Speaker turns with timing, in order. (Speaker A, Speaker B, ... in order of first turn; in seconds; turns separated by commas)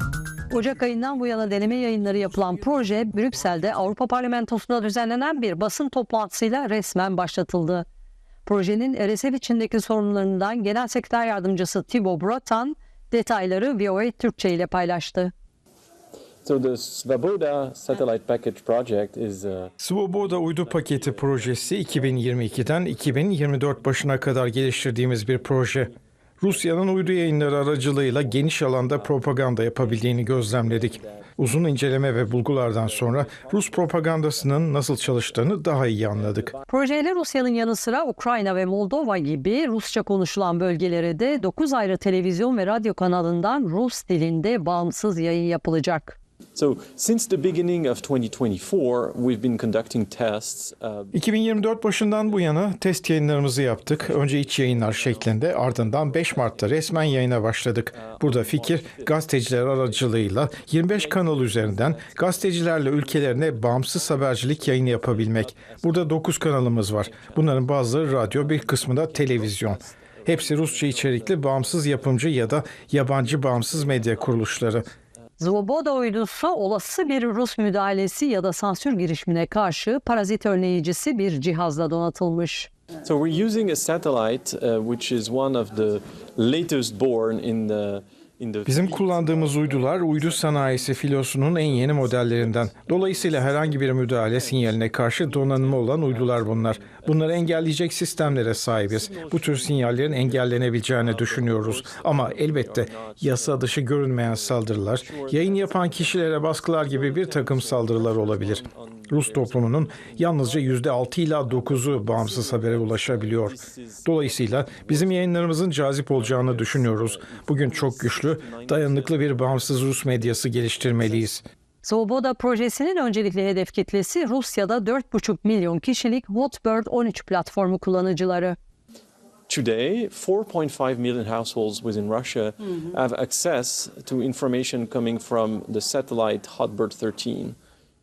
Speaker A: 0.5-7.8, Speaker A: 8.4-15.3, Speaker B: 16.4-36.6, Speaker C: 19.8-36.5, Speaker A: 36.7-46.2, Speaker B: 46.5-52.7, Speaker C: 51.1-74.9, Speaker B: 53.2-75.3, Speaker A: 75.4-82.7, Speaker B: 83.0-121.4, Speaker C: 88.7-121.4, Speaker A: 121.8-128.6, Speaker B: 129.5-137.6